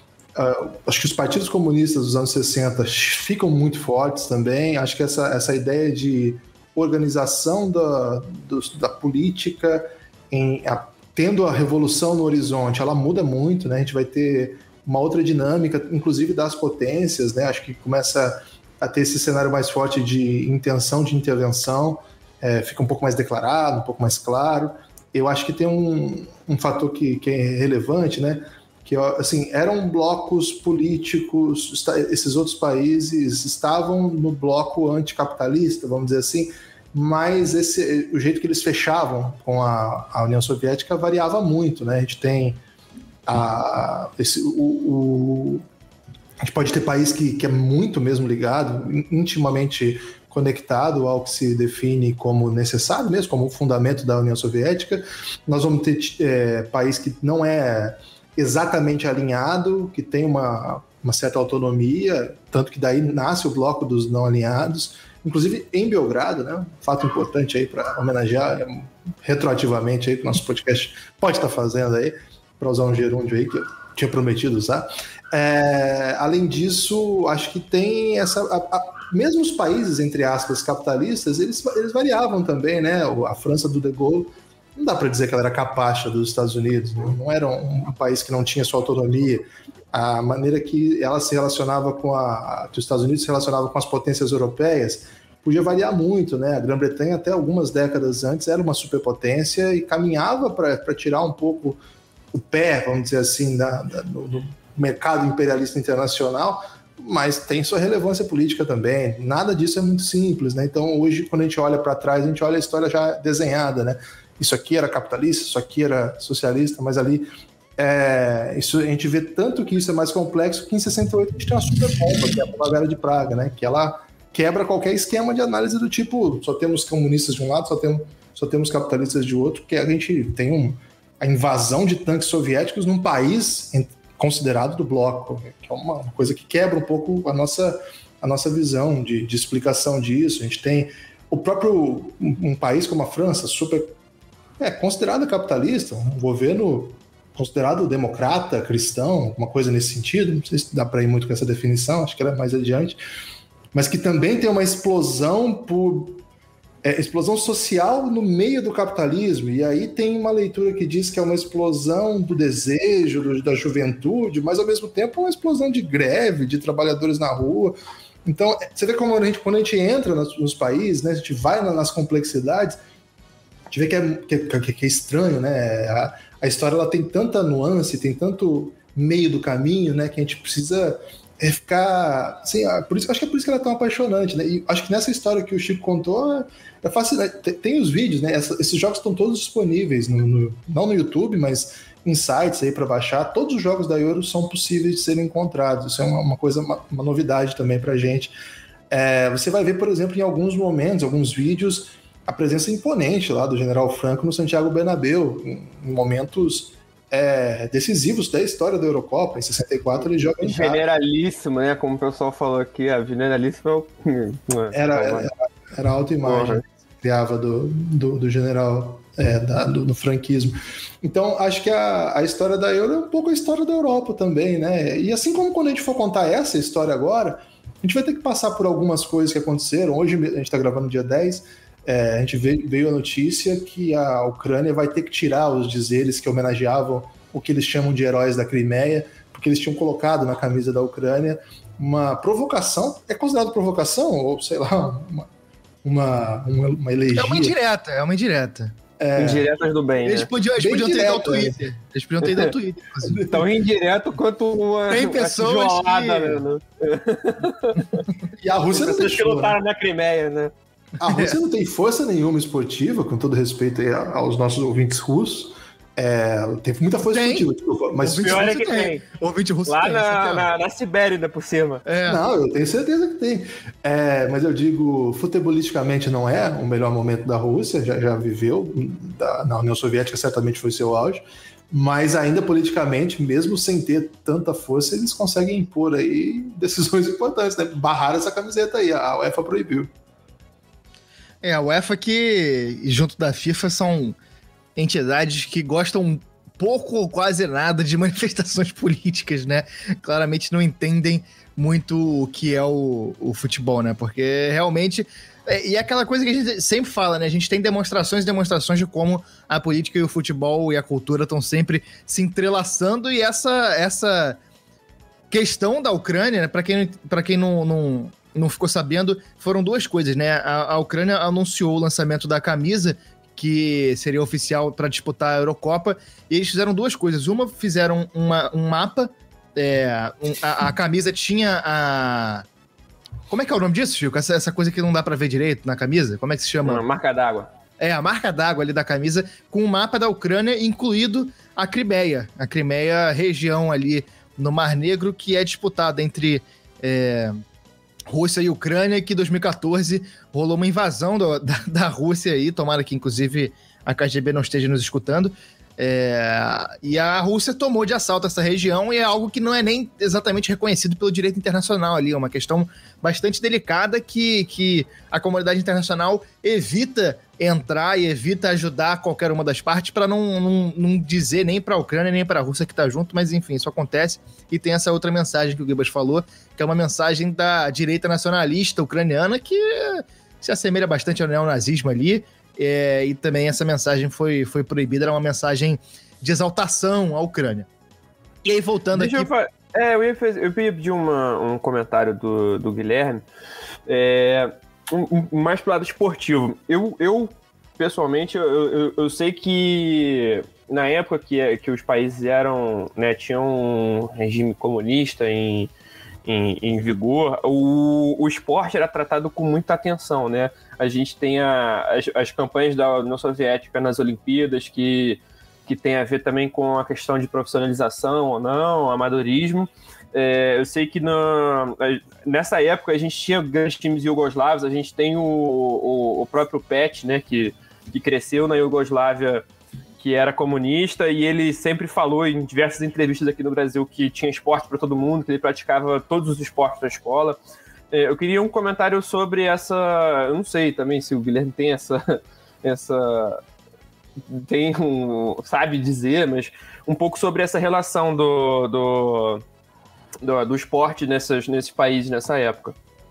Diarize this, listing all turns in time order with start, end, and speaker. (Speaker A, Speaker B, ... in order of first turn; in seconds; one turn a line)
Speaker A: 0.3-42.6
Speaker A: 43.2-45.6
Speaker A: 46.4-101.8
Speaker A: 102.3-143.9
Speaker A: 144.6-153.0
Speaker A: 153.7-156.2
Speaker A: 156.8-172.8
Speaker A: 173.7-198.3
Speaker A: 198.9-210.8
Speaker B: 210.4-215.3
Speaker A: 214.7-245.3
Speaker B: 216.2-216.6
Speaker A: 245.8-247.6
Speaker C: 247.1-248.7
Speaker A: 249.0-249.5
Speaker B: 249.2-250.3
Speaker C: 250.0-253.2
Speaker A: 250.6-251.6
Speaker B: 252.2-252.5
Speaker A: 253.0-253.5
Speaker B: 253.3-258.0
Speaker C: 254.9-256.4
Speaker A: 258.4-259.6
Speaker B: 258.7-260.5
Speaker A: 261.0-268.4
Speaker C: 261.0-261.4
Speaker C: 267.1-270.5
Speaker B: 268.1-269.0
Speaker B: 269.7-271.9
Speaker C: 271.9-272.2
Speaker A: 272.1-289.9
Speaker C: 291.4-294.2
Speaker C: 294.8-314.4
Speaker C: 315.3-332.4
Speaker C: 333.3-336.8
Speaker B: 336.6-337.5
Speaker C: 337.8-347.4
Speaker C: 348.1-387.7
Speaker C: 388.4-389.3
Speaker B: 388.9-393.2
Speaker B: 393.9-405.7
Speaker B: 406.2-429.4
Speaker B: 430.0-437.4
Speaker B: 437.9-443.4
Speaker B: 444.3-449.4
Speaker B: 450.2-452.7